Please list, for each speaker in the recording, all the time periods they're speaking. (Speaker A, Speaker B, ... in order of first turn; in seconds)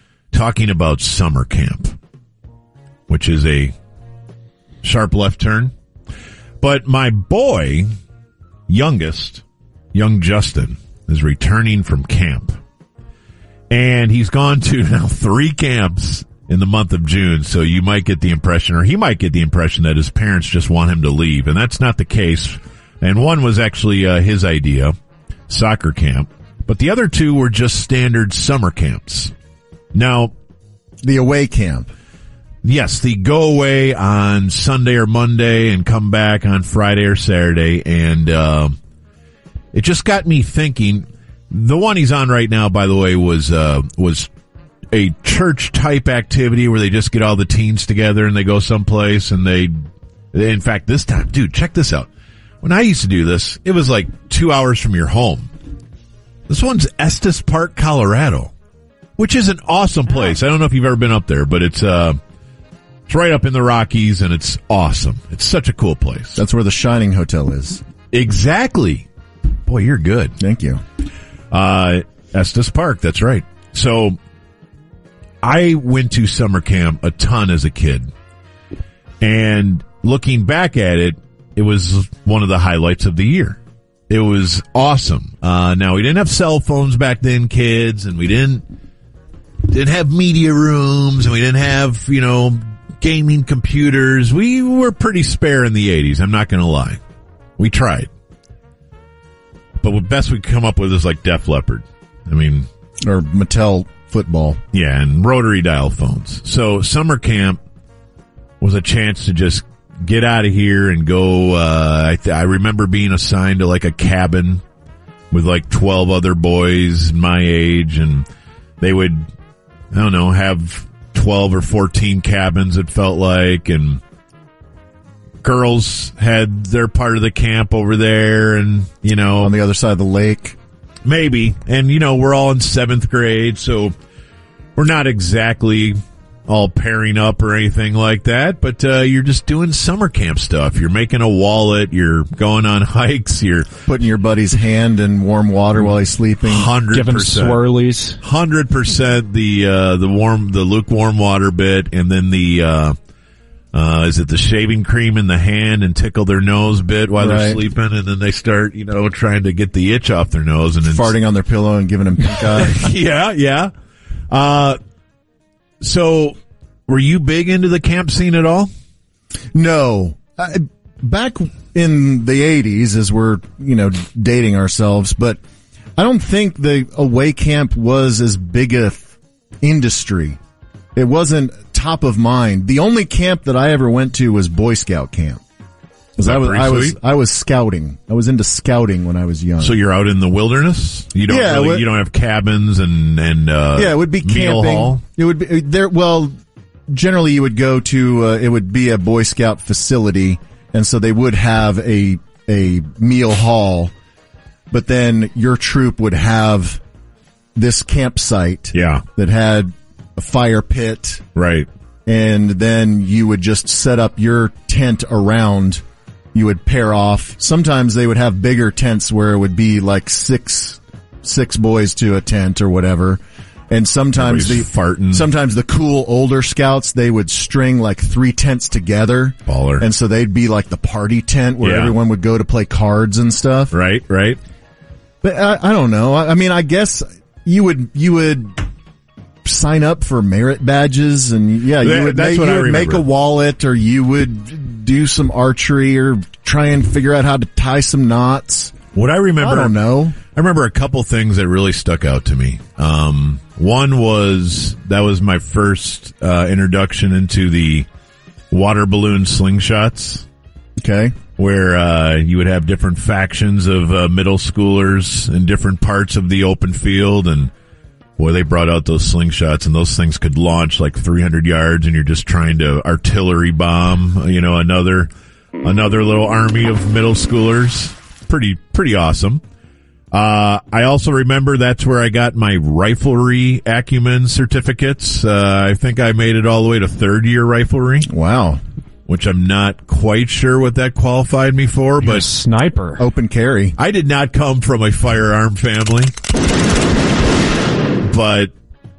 Speaker A: 0.3-1.9, 3.1-3.7, 4.8-5.7, 6.6-7.9, 8.7-12.6, 13.7-24.9, 25.5-29.3, 29.9-30.3, 32.6-38.8, 39.7-44.3, 44.9-49.7, 50.3-52.1, 52.6-55.5, 56.5-58.5, 59.2-62.2, 63.1-66.4, 68.1-69.1, 69.7-70.3, 71.5-74.2, 75.4-78.1, 79.2-88.6, 89.6-97.0, 97.6-98.1, 99.8-102.7, 104.7-107.6, 108.6-114.6, 115.3-118.3, 118.8-119.3, 119.9-124.0, 125.4-129.5, 131.0-133.9, 134.8-143.7, 146.4-147.6, 148.2-152.9, 153.7-161.1, 162.3-163.7, 164.3-164.8, 165.8-168.7, 186.2-187.0, 189.6-195.0, 208.7-209.0, 211.3-211.7, 224.2-225.3, 229.5-229.8, 231.6-231.9, 233.7-234.4, 241.8-243.0, 248.9-249.7, 250.3-257.9, 258.5-260.2, 261.4-267.5, 268.2-279.4, 280.1-288.1, 289.1-292.3, 293.8-296.1, 298.0-298.5
Speaker B: 31.0-31.9, 66.4-67.8, 70.4-70.8, 103.0-104.6, 129.4-130.6, 143.9-146.7, 157.2-157.6, 160.9-162.8, 169.5-175.4, 176.0-179.1, 179.6-180.4, 180.9-185.4, 186.2-189.7, 191.3-191.9, 193.8-196.3, 196.9-203.9, 204.7-206.8, 207.5-211.2, 212.1-215.8, 216.3-233.7, 235.2-238.6, 239.4-248.7, 249.4-250.2, 260.8-261.1, 288.1-288.6, 293.0-293.8
Speaker C: 146.9-148.2, 292.0-293.0